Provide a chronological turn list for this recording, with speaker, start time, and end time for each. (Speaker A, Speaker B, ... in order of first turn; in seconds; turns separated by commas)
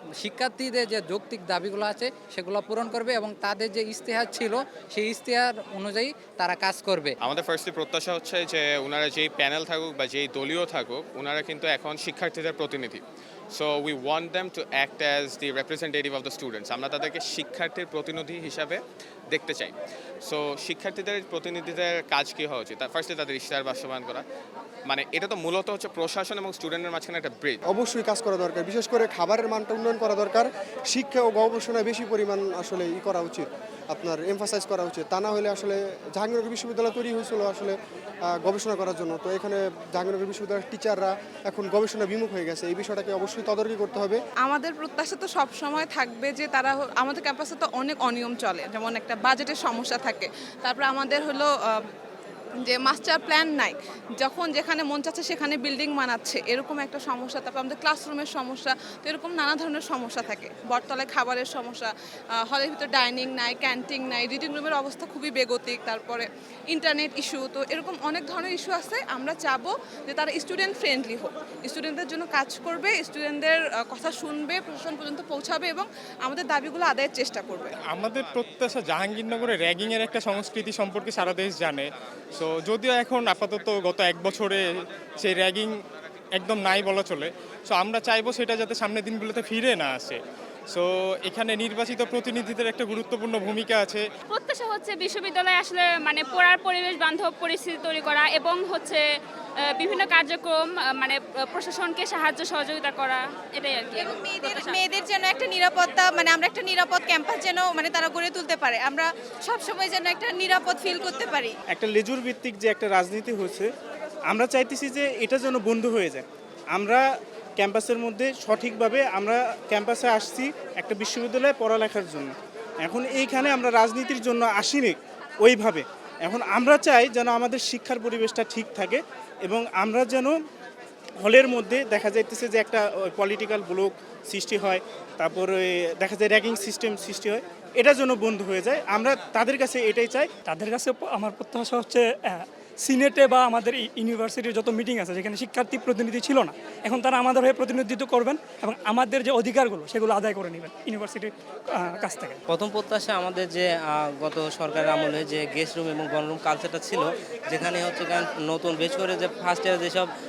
Speaker A: 0.2-7.1, Speaker B: 7.2-24.2, Speaker B: 24.9-27.6, Speaker C: 27.7-44.2, Speaker D: 44.4-51.8, Speaker D: 52.6-77.7, Speaker E: 77.8-84.6, Speaker E: 85.2-85.7, Speaker E: 86.3-90.2, Speaker E: 90.7-94.0, Speaker F: 94.3-99.0, Speaker F: 99.7-104.8, Speaker G: 104.0-111.5, Speaker H: 111.7-113.7, Speaker H: 114.3-117.0, Speaker H: 117.6-122.3, Speaker H: 122.8-130.3, Speaker H: 131.2-140.3, Speaker I: 140.4-152.4, Speaker J: 152.5-160.1